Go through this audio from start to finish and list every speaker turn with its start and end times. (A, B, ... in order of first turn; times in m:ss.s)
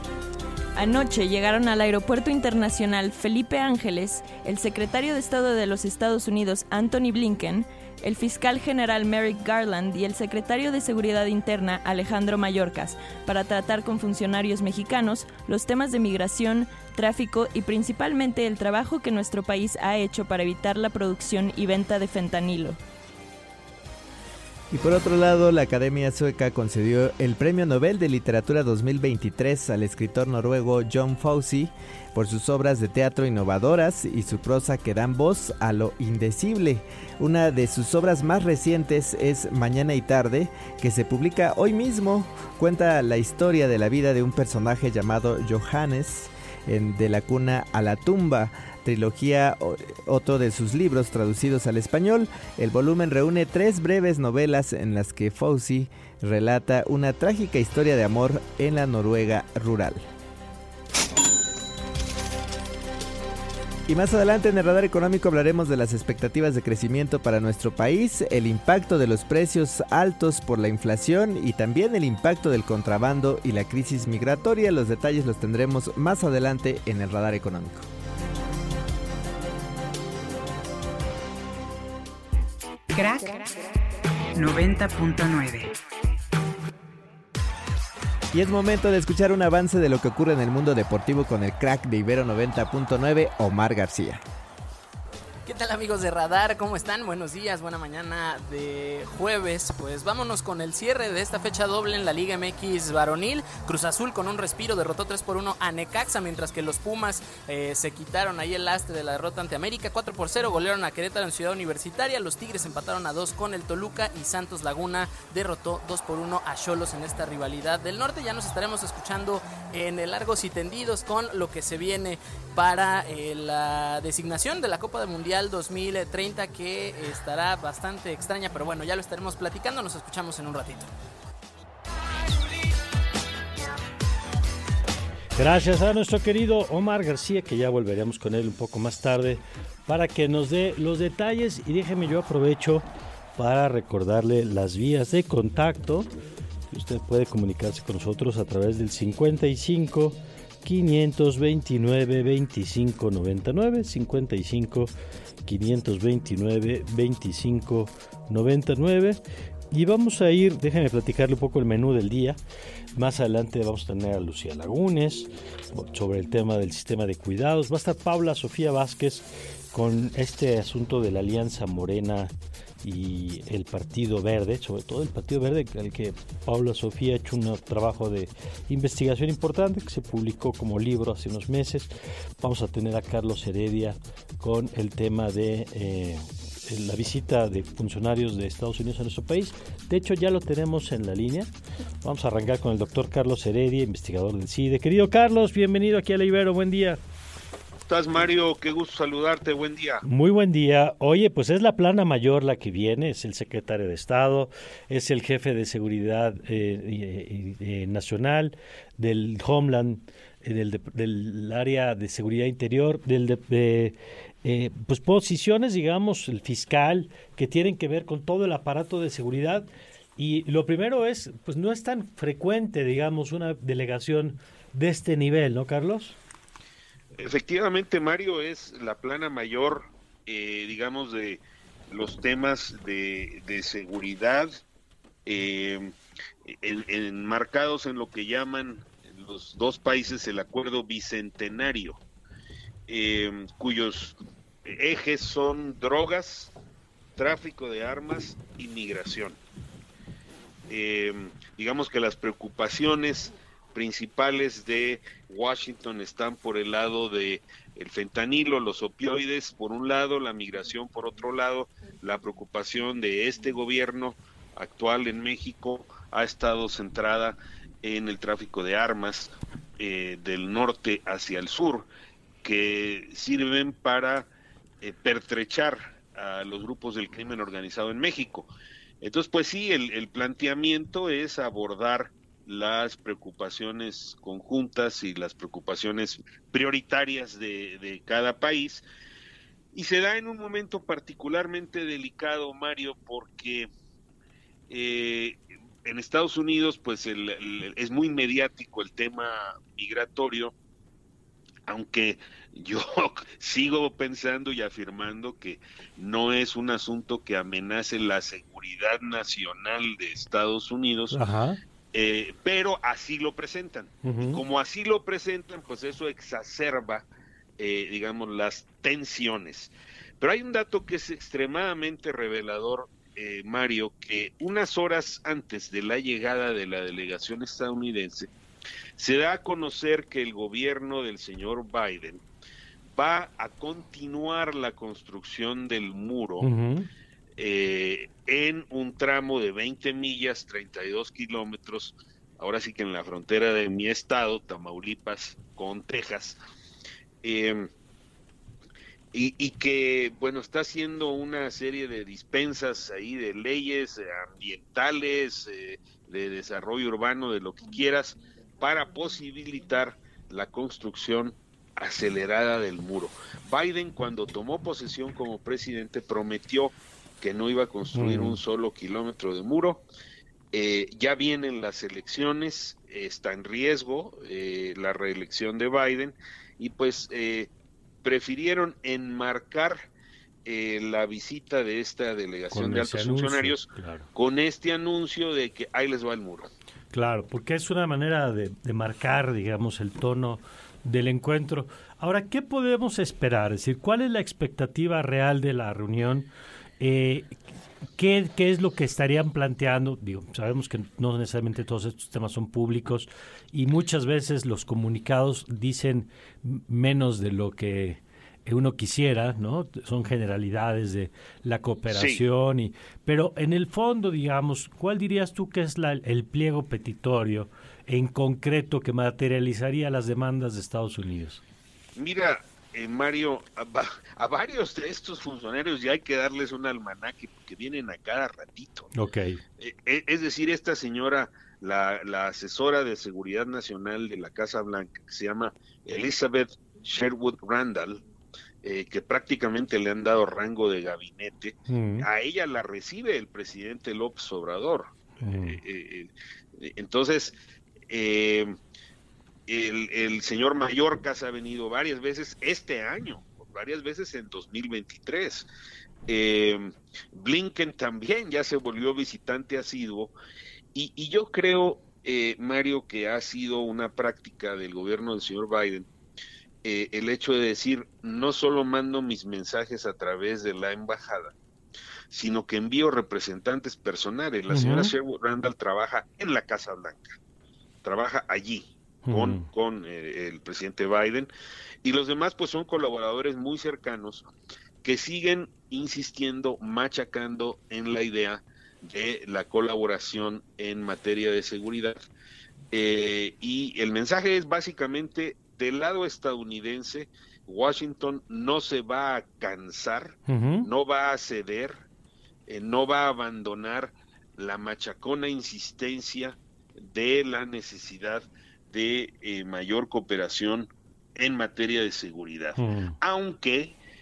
0:00.8-0:22.8 A
0:24.7-1:00.0 B
1:03.9-1:17.9 B
1:22.9-1:23.6 C
1:24.3-1:25.7 C
1:28.3-1:34.2 B
1:35.5-2:10.9 D
2:15.4-2:26.1 E
2:26.7-2:34.9 E
2:35.4-2:39.2 E
2:39.7-2:42.4 E
2:43.0-2:52.3 E
2:52.8-3:11.5 E
3:12.0-3:17.0 E
3:17.9-3:20.0 F
3:20.0-3:46.2 E
3:47.2-3:54.5 F
3:55.3-3:56.0 F
3:56.5-4:02.0 F
4:02.9-4:06.5 F
4:07.2-4:09.4 F
4:10.7-4:31.9 F
4:32.4-4:34.3 F
4:34.8-4:38.5 F
4:39.0-4:48.8 F
4:49.7-4:53.7 F
4:54.7-5:00.5 F
5:01.7-5:11.2 F
5:11.1-5:11.6 E
5:11.9-5:17.1 F
5:14.0-5:14.4 E
5:17.6-5:28.3 F
5:29.0-5:32.2 F
5:32.9-5:36.5 F
5:36.4-5:36.9 E
5:37.4-5:46.4 F
5:47.2-5:47.7 F
5:49.1-6:09.8 F
6:07.9-6:08.4 E
6:10.5-6:17.5 F
6:18.0-6:19.8 F
6:20.4-6:26.5 F
6:22.5-6:24.1 E
6:26.9-6:37.4 E
6:38.0-7:01.4 E
6:51.9-6:52.2 F
7:02.0-7:08.9 F
7:08.9-7:09.4 E
7:09.6-7:18.0 F
7:18.6-7:27.4 F
7:21.7-7:22.1 E
7:25.2-7:25.6 E
7:27.9-7:28.6 F
7:29.5-7:35.5 F
7:36.1-7:40.1 F
7:40.7-7:45.9 F
7:46.6-7:51.4 F
7:52.1-7:57.2 F
7:54.5-7:54.9 E
7:57.8-8:01.3 F
7:59.1-7:59.5 E
8:01.8-8:04.3 F
8:04.8-8:12.0 F
8:12.7-8:21.8 F
8:20.3-8:20.7 E
8:22.5-8:33.8 F
8:32.6-8:33.0 E